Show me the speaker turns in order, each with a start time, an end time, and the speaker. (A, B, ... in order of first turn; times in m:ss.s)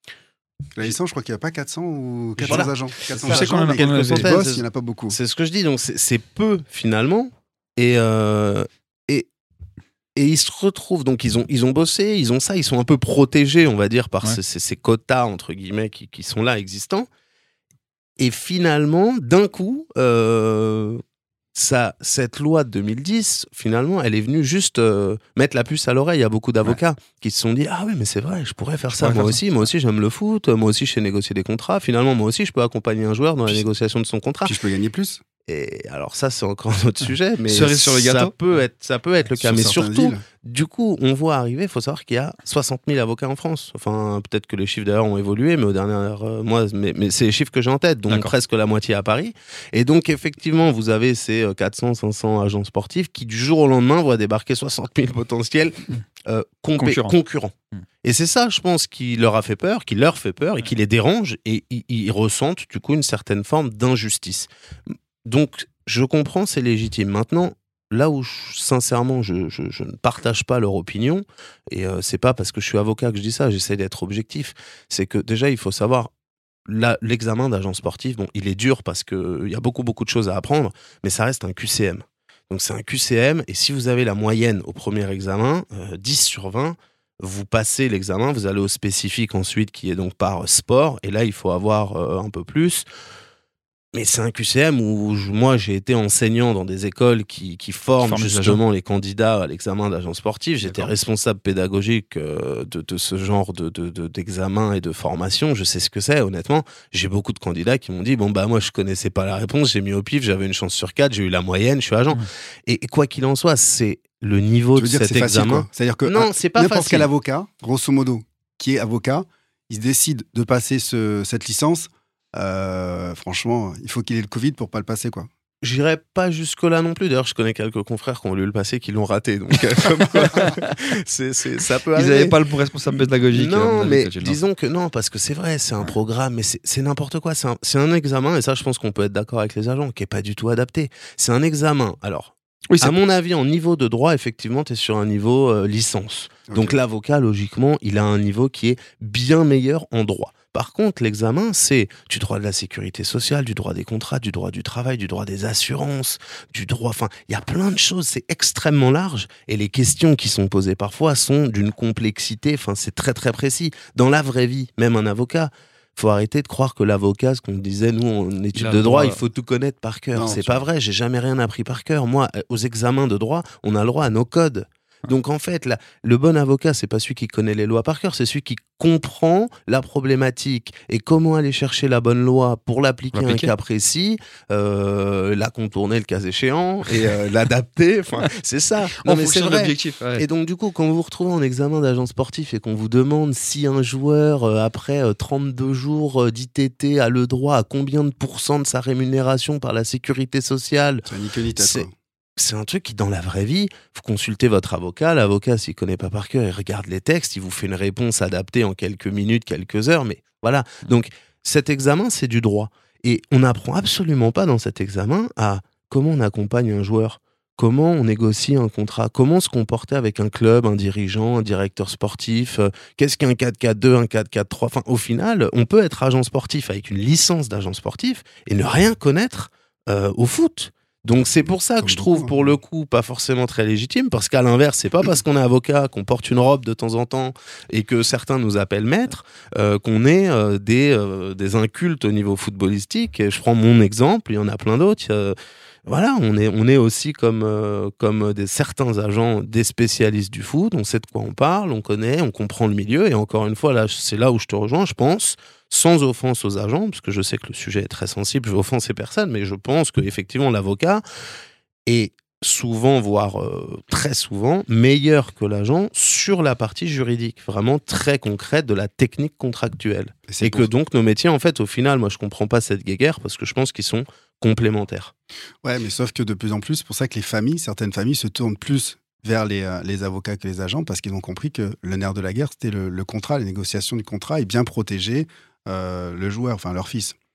0:00.8-0:05.2 A
0:02.4-0:04.4 B
0:02.5-0:09.3 C
0:10.2-0:17.1 C
0:18.2-0:21.0 C
0:21.6-0:34.6 C
0:29.0-0:29.4 B
0:34.4-0:35.2 A
0:35.5-1:16.1 C
0:37.5-0:38.3 B
0:39.4-0:40.2 A
0:56.8-0:57.2 B
1:16.7-1:32.9 C
1:33.9-1:57.1 C
1:38.0-1:38.6 B
1:40.6-1:40.9 B
1:54.8-2:05.3 A
2:05.6-2:12.4 C
2:10.3-2:10.5 B
2:12.0-2:14.4 B
2:13.3-4:21.0 C
2:22.7-2:23.0 B
2:26.5-2:26.8 A
2:48.6-2:49.2 B
2:50.1-2:50.6 A
3:03.2-3:03.5 B
3:09.0-3:10.2 B
3:21.1-3:21.9 A
3:51.8-3:52.5 A
4:21.9-4:35.1 C
4:30.3-4:30.7 A
4:35.6-4:47.2 A